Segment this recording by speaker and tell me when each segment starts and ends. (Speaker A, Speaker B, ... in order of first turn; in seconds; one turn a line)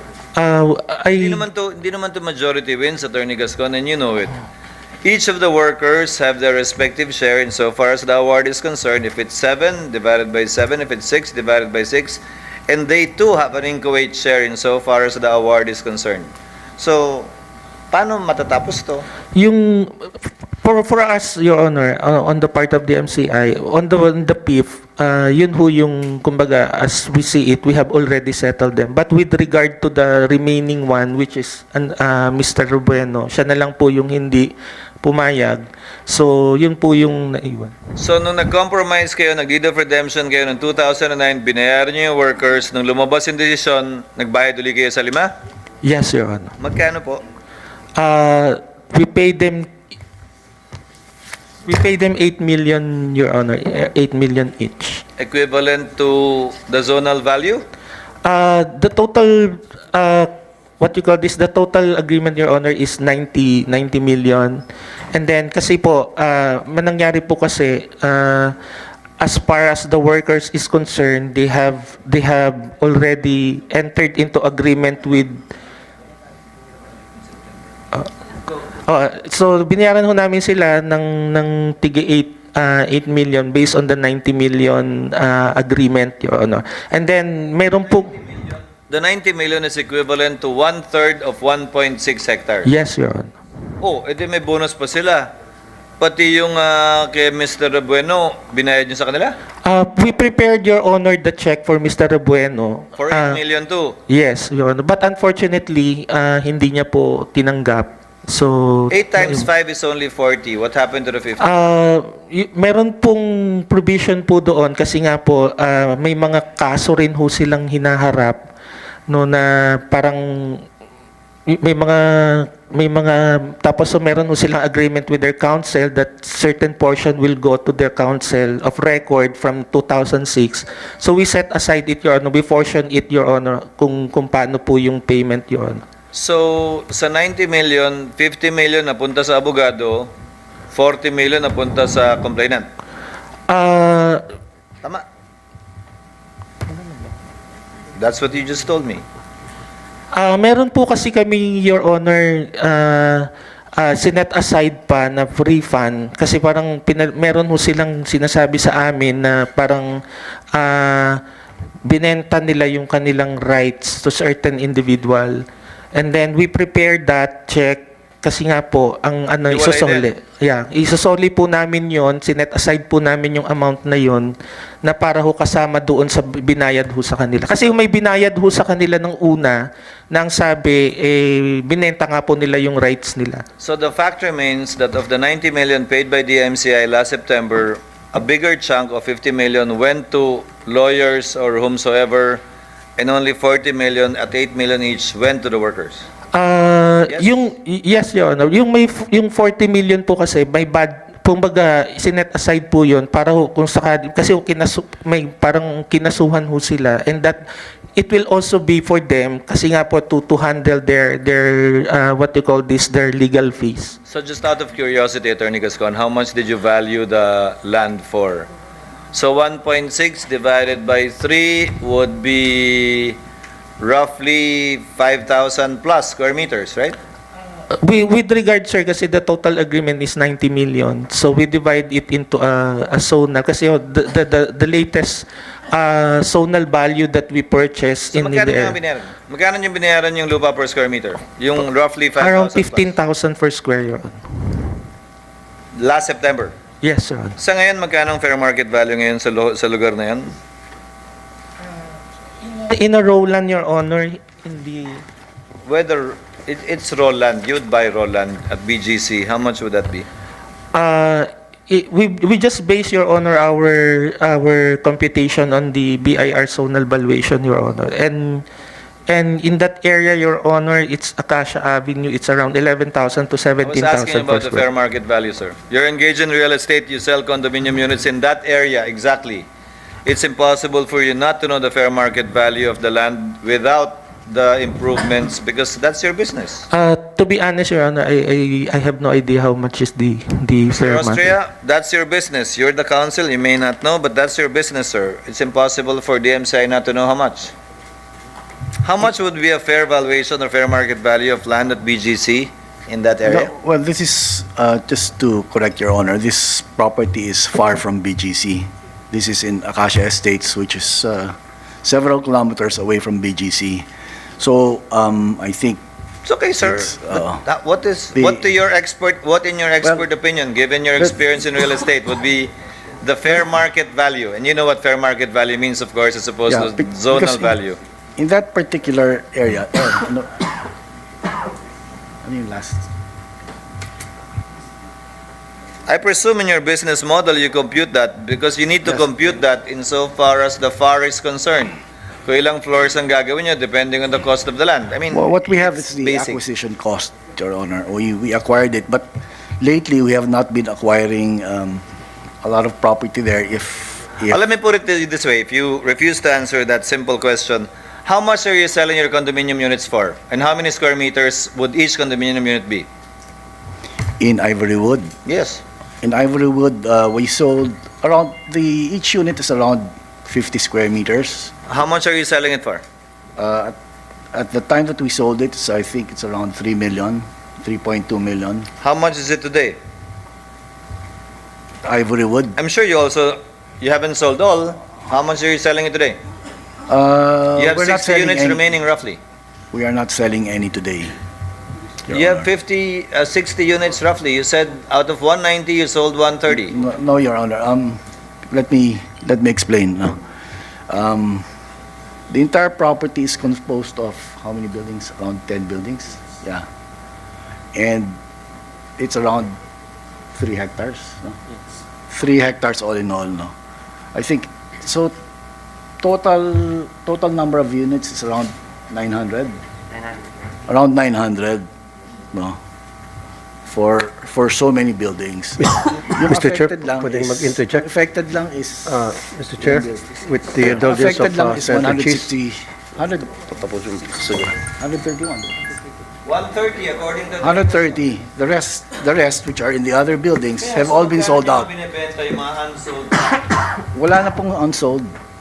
Speaker A: 0.3-1.4
Speaker B: 1.2-4.4
Speaker B: 5.0-17.3
Speaker B: 17.9-19.1
Speaker A: 19.4-20.1
Speaker A: 20.6-37.7
Speaker B: 38.0-45.3
Speaker A: 45.8-46.5
Speaker B: 46.6-47.2
Speaker A: 48.0-49.7
Speaker A: 51.6-55.0
Speaker B: 55.2-57.6
Speaker A: 58.2-68.5
Speaker A: 69.2-75.4
Speaker A: 78.7-88.2
Speaker B: 88.9-92.7
Speaker A: 92.6-93.3
Speaker B: 93.8-95.3
Speaker B: 96.0-99.3
Speaker A: 99.6-103.4
Speaker B: 103.0-104.0
Speaker A: 104.1-109.4
Speaker B: 108.9-111.5
Speaker A: 111.4-118.4
Speaker A: 119.1-120.6
Speaker A: 121.5-135.8
Speaker B: 136.1-140.1
Speaker B: 140.7-142.7
Speaker A: 143.5-144.2
Speaker B: 147.9-149.0
Speaker A: 150.1-160.0
Speaker A: 160.5-161.2
Speaker A: 161.8-183.4
Speaker B: 169.5-170.1
Speaker B: 183.6-192.4
Speaker B: 193.0-196.1
Speaker A: 196.3-207.4
Speaker A: 207.9-214.0
Speaker B: 214.1-218.5
Speaker B: 219.1-223.2
Speaker B: 223.8-227.0
Speaker A: 227.7-238.8
Speaker B: 238.1-242.9
Speaker A: 242.2-244.7
Speaker B: 245.8-246.5
Speaker A: 246.8-247.4
Speaker B: 247.4-250.3
Speaker A: 252.4-255.0
Speaker B: 255.7-260.1
Speaker A: 260.7-268.4
Speaker A: 269.1-274.6
Speaker B: 273.6-279.5
Speaker B: 280.0-286.7
Speaker A: 286.7-291.3
Speaker B: 290.8-297.5
Speaker B: 298.8-303.5
Speaker C: 303.2-313.9
Speaker C: 314.4-315.8
Speaker B: 316.2-327.8
Speaker C: 316.6-317.4
Speaker C: 318.1-318.4
Speaker C: 326.5-327.6
Speaker C: 328.2-330.4
Speaker C: 332.2-332.9
Speaker B: 335.9-346.4
Speaker C: 345.1-349.1
Speaker C: 349.6-351.8
Speaker C: 352.4-354.4
Speaker B: 354.3-362.9
Speaker C: 364.2-365.1
Speaker B: 365.2-365.6
Speaker C: 366.0-371.5
Speaker B: 371.7-372.8
Speaker C: 373.4-373.7
Speaker C: 374.3-378.7
Speaker B: 378.8-379.8
Speaker C: 381.8-382.6
Speaker B: 382.6-386.2
Speaker C: 386.9-388.6
Speaker B: 387.6-389.2
Speaker C: 389.7-391.1
Speaker C: 392.1-392.5
Speaker B: 392.1-396.8
Speaker C: 396.5-400.2
Speaker C: 400.9-401.4
Speaker C: 402.3-406.6
Speaker C: 407.7-408.2
Speaker C: 409.0-409.6
Speaker C: 410.3-411.4
Speaker C: 412.1-413.5
Speaker C: 414.1-415.1
Speaker C: 416.0-419.5
Speaker C: 420.7-421.7
Speaker C: 422.3-422.6
Speaker C: 423.6-429.0
Speaker D: 425.6-427.9
Speaker D: 428.9-432.3
Speaker C: 429.6-430.0
Speaker C: 430.7-433.4
Speaker D: 433.6-434.5
Speaker C: 434.6-435.7
Speaker B: 436.2-438.0
Speaker C: 437.4-441.7
Speaker B: 440.6-443.6
Speaker C: 443.9-445.1